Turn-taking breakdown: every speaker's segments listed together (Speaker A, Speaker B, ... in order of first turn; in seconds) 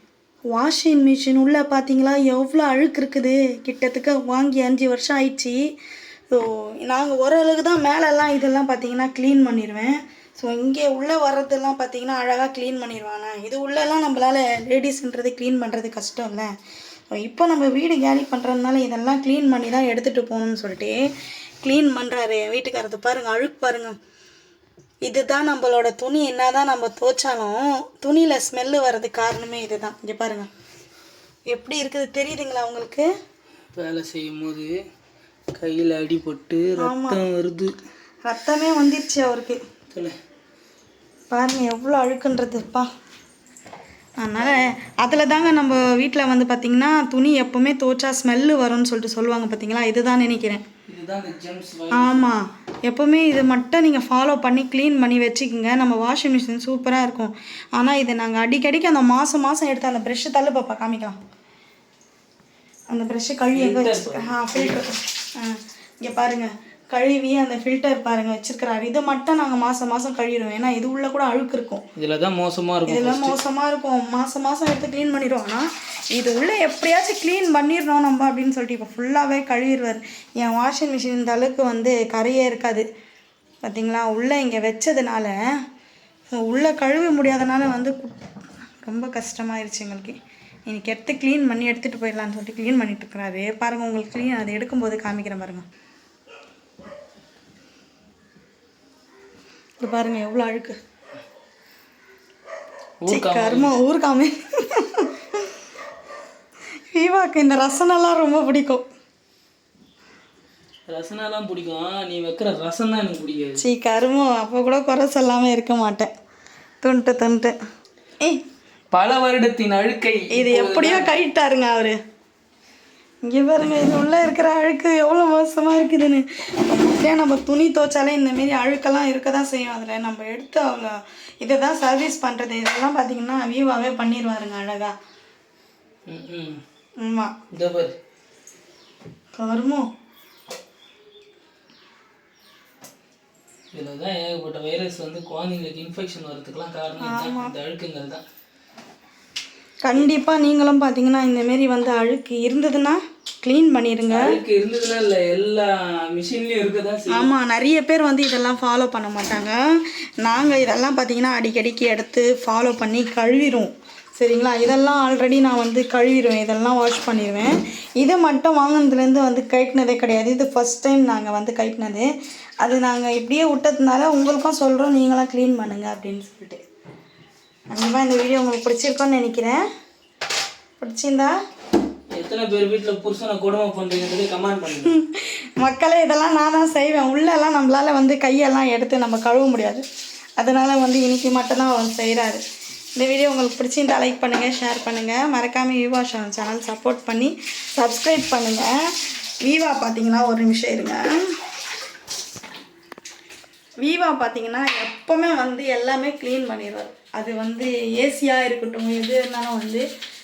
Speaker A: 0.5-5.6, 6.3-16.5, 17.1-21.0, 21.6-23.9, 25.0-30.5, 31.5-33.1, 36.8-37.2, 38.2-39.6, 41.3-42.9, 44.2-50.6, 51.9-61.2, 62.9-71.8, 72.8-82.8, 83.6-85.3, 86.3-88.2, 88.8-95.7, 99.8-100.8, 103.1-105.1, 106.9-108.8, 113.6-116.1, 116.8-117.5, 120.3-122.0, 123.2-134.9, 137.0-137.3, 139.4-139.9, 147.0-147.5, 149.8-154.4, 157.1-159.6, 160.2-172.1, 172.6-176.6, 177.7-179.6, 180.8-181.3, 184.8-189.8, 190.4-192.4, 192.9-201.1, 203.8-209.8
Speaker B: 33.7-34.8, 35.5-37.7, 39.9-40.1, 50.9-52.3, 63.5-64.8, 72.0-73.4, 103.0-103.7, 110.9-113.6, 118.9-121.1, 136.1-136.6, 137.5-137.9, 143.7-148.2, 154.1-157.3, 182.2-184.9